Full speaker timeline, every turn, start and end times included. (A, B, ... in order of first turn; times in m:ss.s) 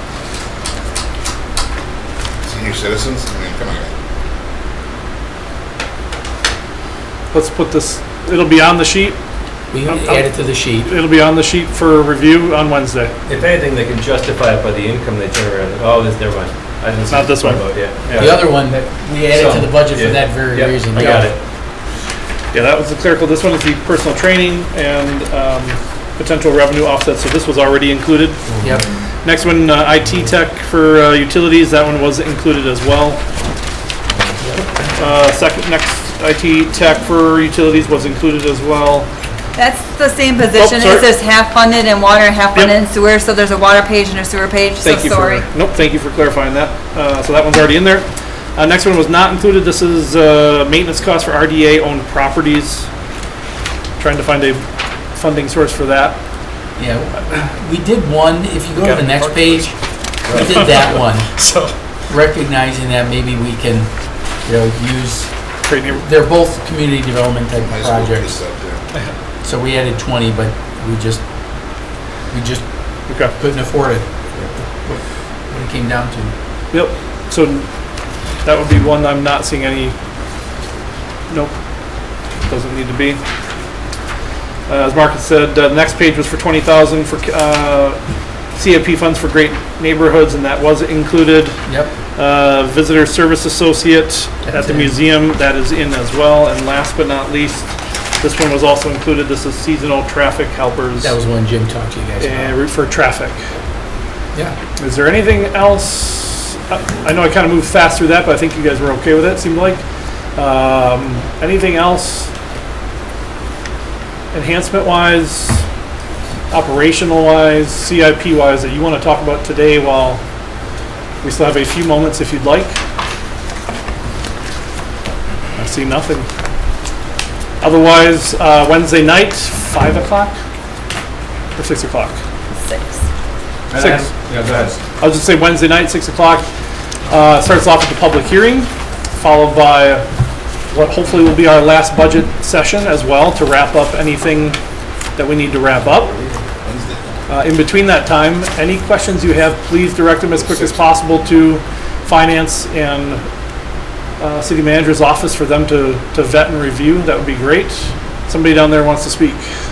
0:02.4-0:03.9 A
0:07.3-0:09.2 B
0:09.7-0:10.9 C
0:09.9-0:10.3 B
0:10.8-0:13.1 B
0:13.2-0:18.5 D
0:17.1-0:18.2 B
0:18.1-0:21.3 C
0:19.3-0:21.4 D
0:22.5-0:28.4 B
0:28.6-0:28.8 C
0:29.2-0:33.2 B
0:34.4-0:34.7 C
0:34.9-0:39.1 B
0:39.5-0:45.4 E
0:40.5-0:41.1 B
0:44.8-0:52.9 B
0:54.0-0:56.2 B
0:56.8-1:01.3 C
0:58.7-0:59.7 B
1:00.3-1:01.7 B
1:02.1-1:03.9 C
1:04.4-1:05.3 C
1:05.6-1:06.0 B
1:06.0-1:08.4 C
1:07.6-1:08.8 A
1:09.4-1:11.2 C
1:12.3-1:12.6 C
1:13.1-1:13.3 B
1:13.2-1:14.0 C
1:14.8-1:16.3 C
1:16.7-1:17.7 B
1:18.4-1:19.9 B
1:21.3-1:21.5 B
1:22.4-1:23.2 B
1:24.7-1:28.0 B
1:28.5-1:31.6 B
1:31.7-1:31.9 C
1:32.2-1:41.1 B
1:34.4-1:34.9 C
1:41.0-1:42.6 C
1:42.2-1:43.4 B
1:44.8-1:49.8 B
1:50.4-1:52.3 B
1:54.3-1:55.6 B
1:56.5-2:00.2 B
2:01.2-2:02.8 B
2:05.5-2:06.3 B
2:07.6-2:10.3 B
2:11.6-2:12.2 B
2:12.6-2:13.0 E
2:13.7-2:14.8 D
2:13.8-2:14.1 B
2:15.0-2:16.4 B
2:17.1-2:20.1 B
2:20.7-2:24.6 B
2:25.2-2:26.1 B
2:26.6-2:27.0 A
2:27.3-2:33.2 B
2:34.2-2:39.5 B